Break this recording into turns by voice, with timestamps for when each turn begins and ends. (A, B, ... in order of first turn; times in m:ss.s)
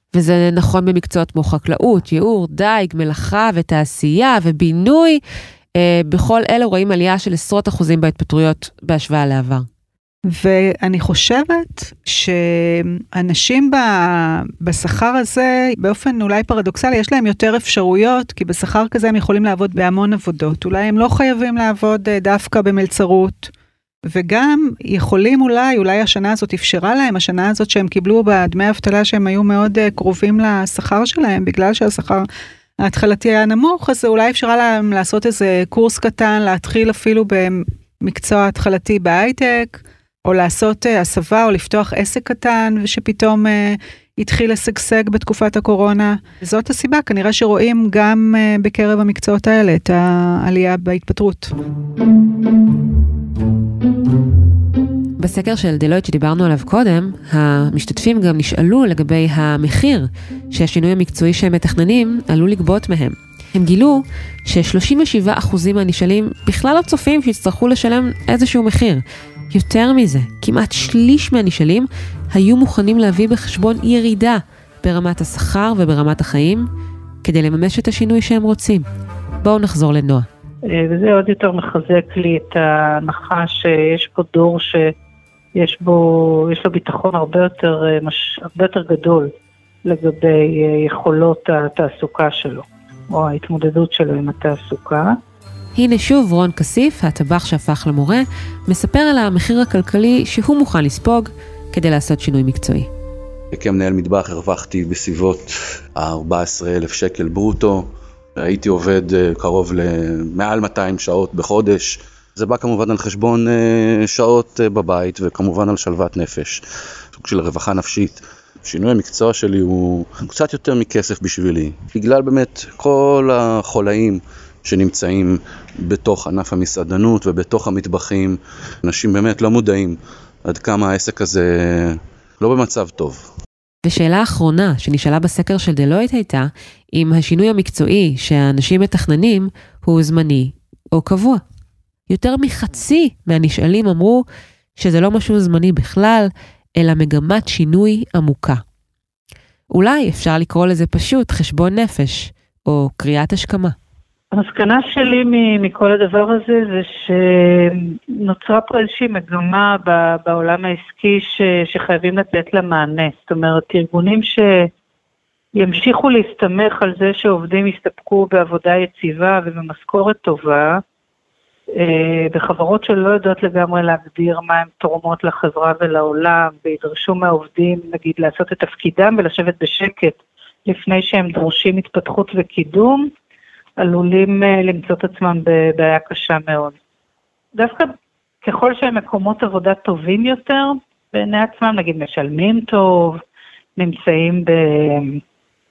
0:00.1-0:05.2 A
0:05.8-0:09.7 A
0:10.3-0:23.5 B
0:24.1-0:32.2 B
0:32.8-0:51.5 B
0:55.2-1:16.7 A
1:17.2-1:18.9 A
1:19.4-1:20.3 A
1:20.6-1:24.9 C
1:25.6-1:29.3 C
1:29.8-1:35.2 C
1:35.8-1:42.9 A
1:43.5-1:56.6 D
1:57.1-2:13.3 D
2:13.8-2:21.4 A
2:22.1-2:24.2 A
2:24.8-2:28.6 A
2:29.7-2:33.8 A
2:34.3-2:44.7 C
2:45.6-2:50.8 C
2:51.7-3:03.1 C
3:03.8-3:06.8 C
3:07.5-3:07.9 C
3:08.4-3:13.2 C
3:13.8-3:15.2 C